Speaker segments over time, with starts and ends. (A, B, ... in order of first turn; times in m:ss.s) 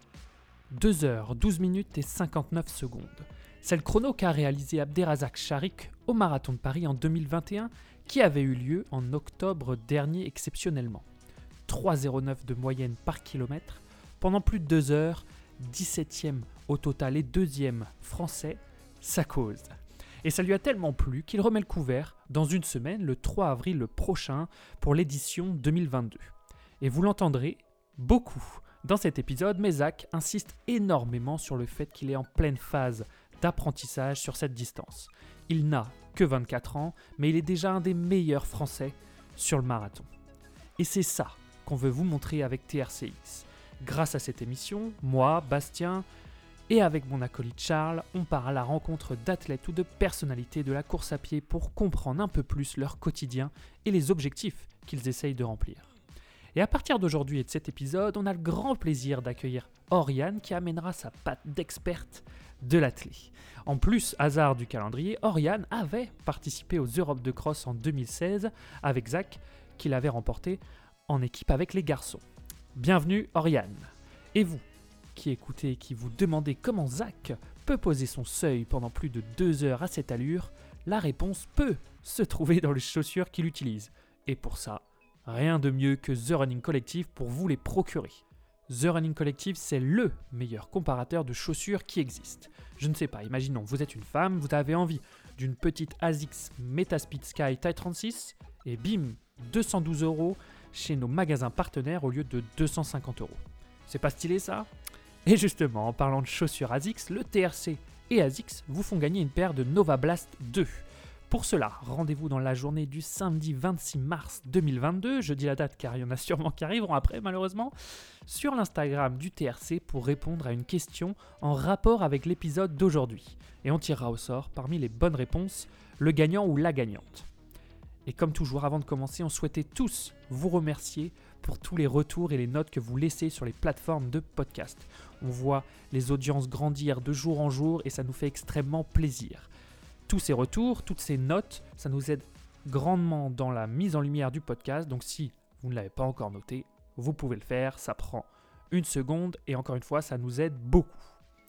0:00.7-0:11.0 A
0:11.7-0:19.7 A
0:20.2-0:40.1 A
0:40.8-0:46.0 A
0:46.7-0:55.9 A
0:56.5-1:12.2 A
1:12.7-1:14.6 A
1:15.1-1:44.7 A
1:45.2-1:57.7 A
1:58.2-2:07.3 A
2:08.0-2:19.5 A
2:20.1-2:31.1 A